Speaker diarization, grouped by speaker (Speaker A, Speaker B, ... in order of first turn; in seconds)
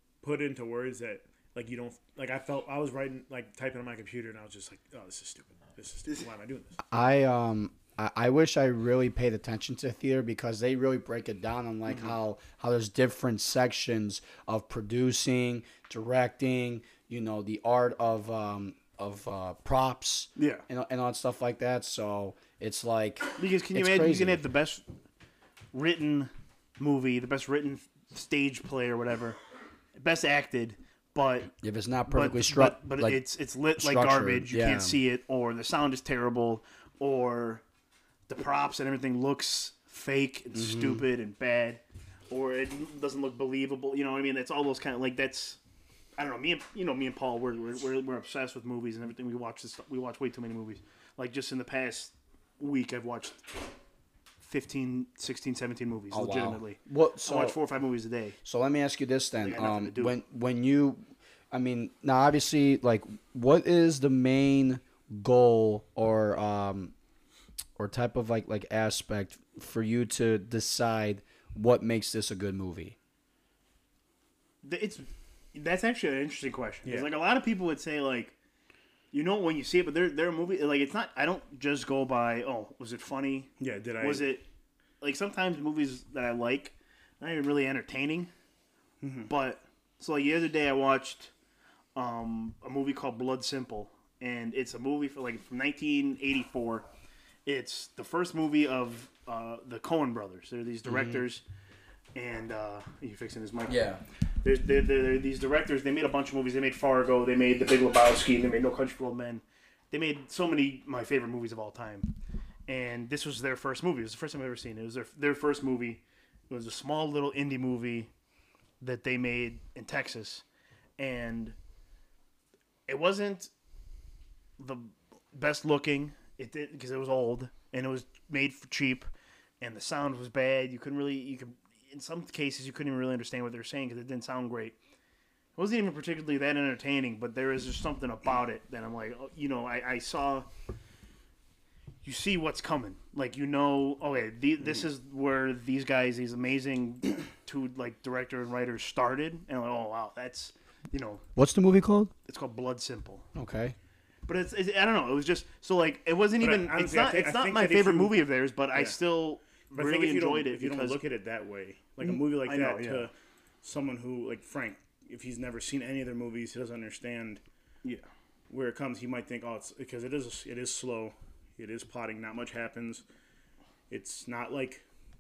Speaker A: 0.2-6.8, 76.8-77.1, 83.6-84.3, 156.4-158.2, 159.7-167.4, 168.5-173.0, 173.9-174.8
Speaker B: 6.9-24.4, 31.6-35.0, 40.5-41.0, 56.1-57.6, 58.5-66.9, 67.8-73.0, 100.9-101.2, 103.7-104.0, 151.4-152.1, 153.3-153.8
Speaker C: 20.4-20.6, 23.4-24.8, 25.7-29.4, 29.9-31.5, 32.1-37.6, 38.3-45.6, 46.2-53.5, 54.4-58.4, 59.4-60.2, 74.6-78.3, 79.1-84.5, 85.0-88.3, 89.1-91.3, 92.0-96.9, 97.5-101.4, 102.2-103.9, 104.4-112.1, 112.7-118.1, 118.8-120.4, 121.0-121.6, 122.9-123.5, 124.6-129.1, 129.6-134.8, 135.6-140.5, 142.0-151.2, 152.3-153.2, 154.3-161.0, 162.0-163.1